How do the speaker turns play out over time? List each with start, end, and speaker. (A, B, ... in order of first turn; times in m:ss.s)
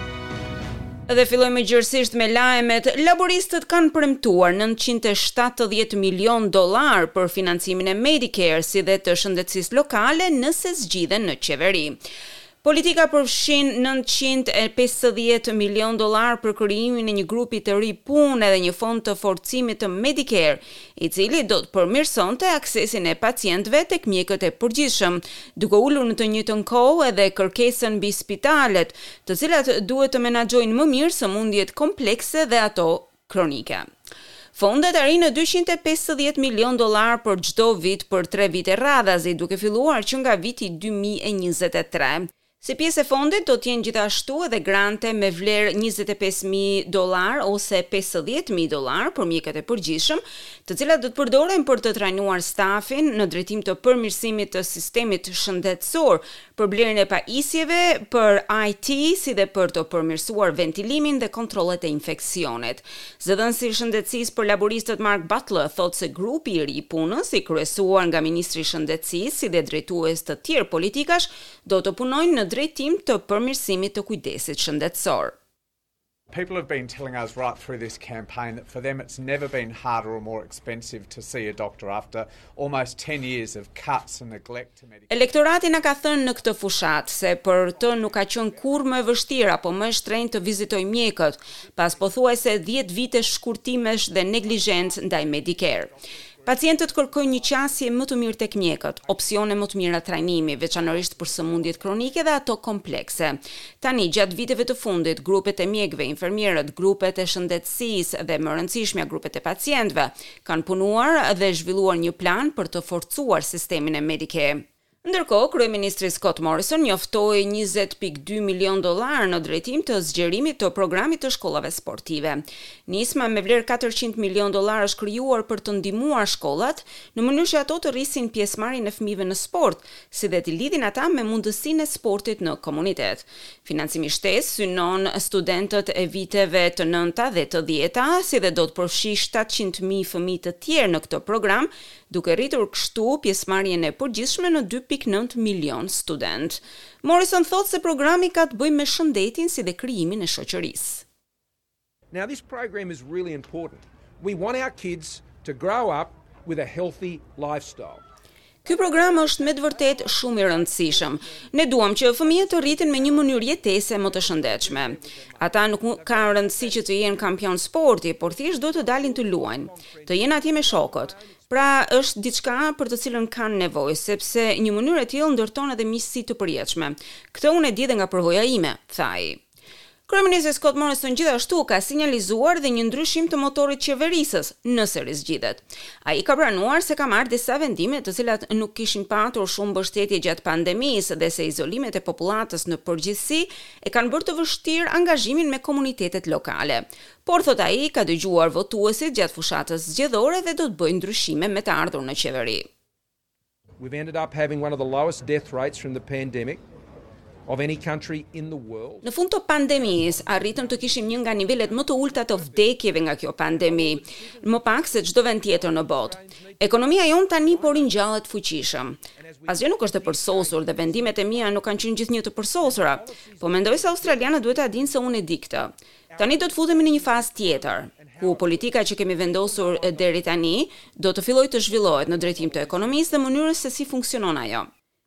0:01.1-0:12.0 A
0:12.6-0:33.9 A
0:34.5-1:15.3 A
1:16.3-1:25.2 B
1:25.1-1:35.9 A
1:27.7-1:28.9 C
1:31.8-1:32.3 C
1:34.4-1:37.6 C
1:36.4-2:31.0 A
1:41.2-1:41.8 C
2:32.1-2:38.0 C
2:38.6-2:59.4 A
2:38.7-2:47.5 C
2:48.0-2:51.7 C
3:00.1-3:22.7 A
3:23.8-3:26.6 C
3:27.4-3:29.1 C
3:29.0-3:54.7 A
3:29.6-3:32.7 C
3:33.5-3:38.2 C
3:39.1-3:41.8 C
3:42.5-3:45.4 C
3:46.1-3:50.3 C
3:51.7-3:53.4 C